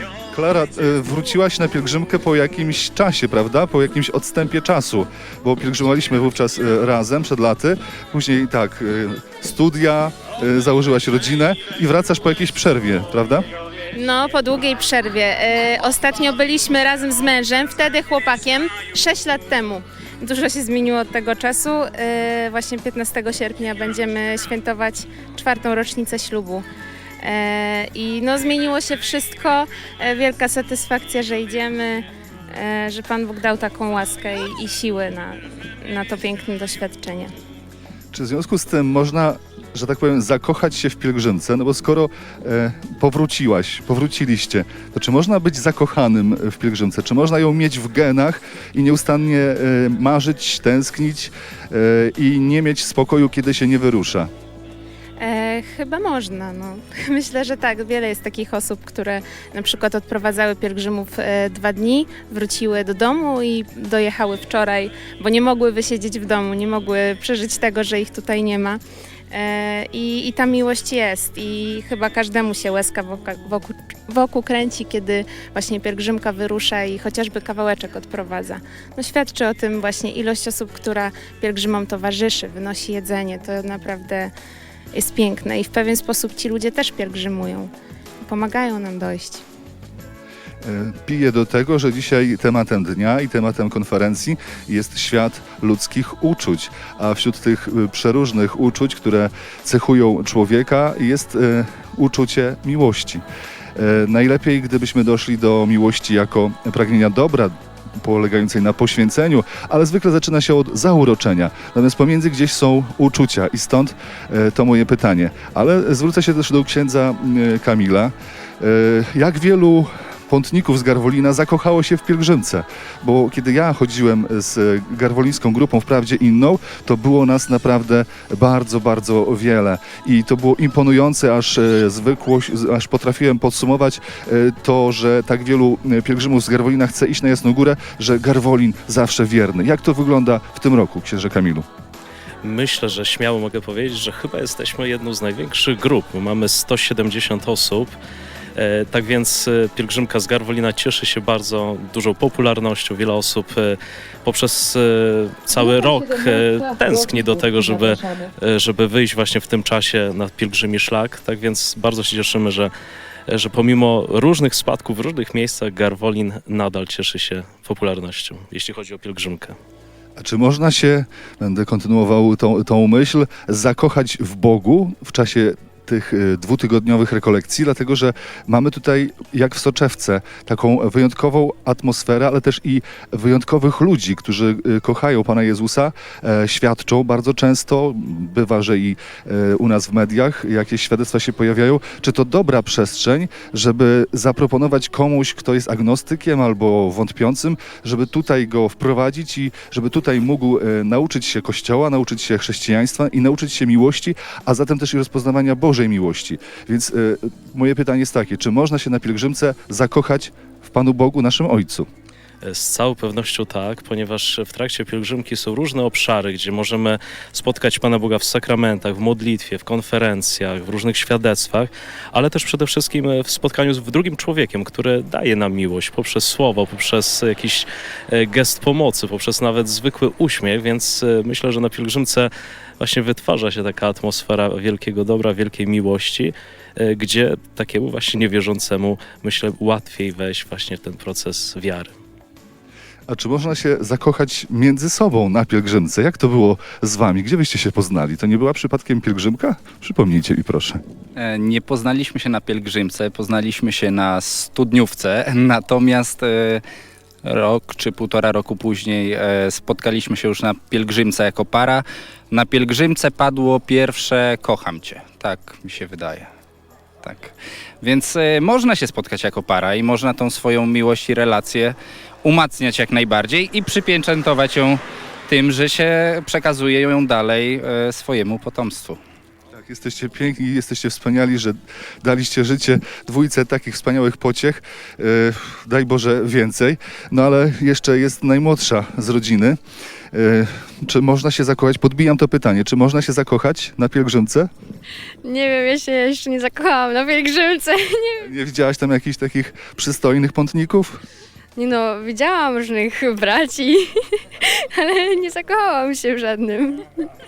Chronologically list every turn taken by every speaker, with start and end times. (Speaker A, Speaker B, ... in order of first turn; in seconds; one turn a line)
Speaker A: 0.3-13.4
Speaker B: 13.9-26.6
Speaker B: 27.2-37.3
Speaker A: 38.1-54.3
Speaker B: 55.2-68.8
Speaker B: 69.3-84.3
Speaker B: 84.9-87.7
Speaker B: 88.2-89.4
Speaker A: 90.6-103.2
Speaker A: 103.8-141.7
Speaker C: 142.4-147.9
Speaker C: 148.6-162.7
Speaker C: 163.3-169.6
Speaker A: 170.2-211.9
Speaker C: 212.4-241.9
Speaker A: 243.1-250.8
Speaker D: 251.2-256.6
Speaker D: 257.2-266.3
Speaker D: 267.0-279.0
Speaker A: 279.5-289.6
Speaker A: 290.1-294.5
Speaker E: 295.2-298.3
Speaker A: 298.2-301.0
Speaker E: 301.6-307.1